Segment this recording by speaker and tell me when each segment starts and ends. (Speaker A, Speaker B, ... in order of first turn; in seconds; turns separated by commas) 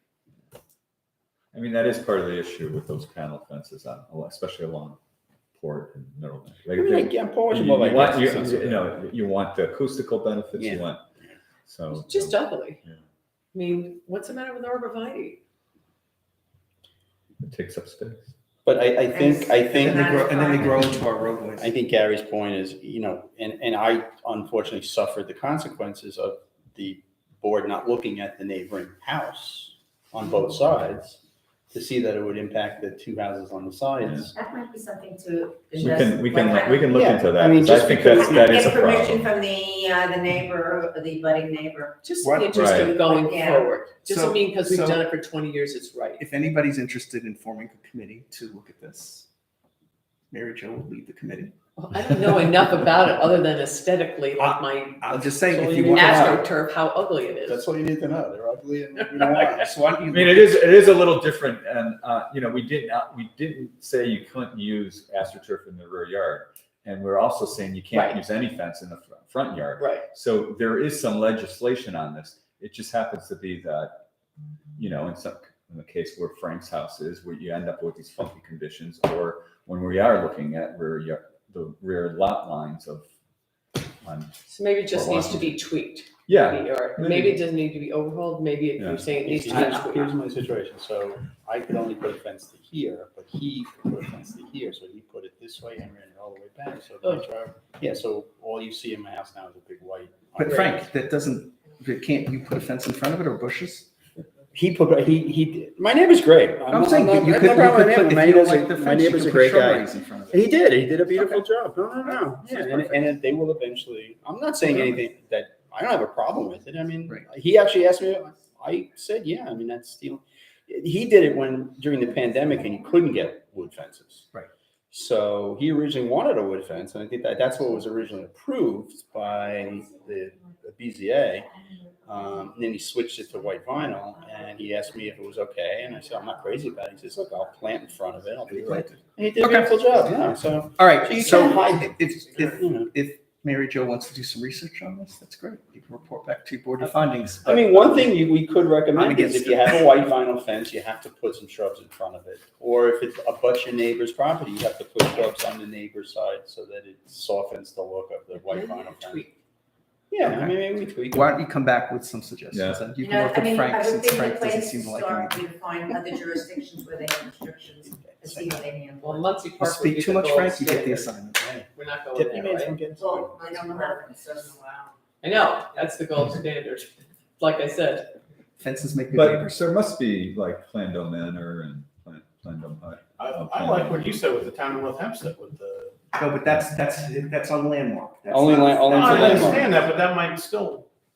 Speaker A: 1.5-5.0, Speaker A: 5.6-11.0, Speaker B: 6.7-8.8, Speaker B: 10.5-11.3, Speaker A: 11.7-13.0, Speaker C: 11.9-12.8, Speaker C: 13.5-15.4, Speaker A: 17.4-18.3, Speaker B: 18.6-20.3, Speaker D: 19.2-21.7, Speaker E: 20.3-20.9, Speaker B: 21.6-31.2, Speaker B: 31.7-34.3, Speaker A: 34.0-34.3, Speaker E: 34.3-36.9, Speaker A: 35.7-39.3, Speaker B: 36.9-38.7, Speaker E: 38.2-42.0, Speaker C: 42.0-46.2, Speaker D: 42.2-42.9, Speaker A: 42.5-42.9, Speaker E: 43.0-43.7, Speaker D: 44.0-45.0, Speaker D: 46.2-49.3, Speaker D: 50.3-51.5, Speaker C: 51.8-57.6, Speaker D: 54.4-56.5, Speaker A: 56.0-56.3, Speaker B: 57.5-59.7, Speaker C: 59.0-59.5, Speaker D: 59.6-60.7, Speaker A: 60.1-74.0, Speaker C: 67.9-68.2, Speaker C: 69.8-70.0, Speaker A: 74.8-83.0, Speaker A: 84.0-85.6, Speaker C: 84.5-90.2, Speaker A: 86.3-87.4, Speaker A: 88.8-89.6, Speaker B: 89.1-100.9, Speaker D: 100.3-103.9, Speaker B: 104.5-124.3, Speaker D: 106.7-110.4, Speaker D: 111.1-111.4, Speaker D: 112.4-113.1, Speaker B: 124.9-131.5, Speaker B: 132.0-142.9, Speaker D: 138.5-140.2, Speaker D: 140.7-148.1, Speaker B: 147.4-159.2, Speaker D: 148.9-150.0, Speaker C: 158.4-159.3, Speaker B: 160.1-161.3, Speaker D: 160.2-165.5, Speaker A: 162.5-162.8, Speaker E: 163.0-169.3, Speaker D: 168.3-168.6, Speaker C: 169.0-171.1, Speaker D: 169.6-171.4, Speaker B: 171.3-173.8, Speaker C: 171.7-172.8, Speaker E: 173.0-174.9, Speaker C: 175.2-178.1, Speaker D: 178.6-179.6, Speaker A: 179.1-184.1, Speaker F: 183.2-185.9, Speaker D: 186.2-189.7, Speaker B: 188.3-189.8, Speaker F: 188.9-190.8, Speaker A: 189.1-189.5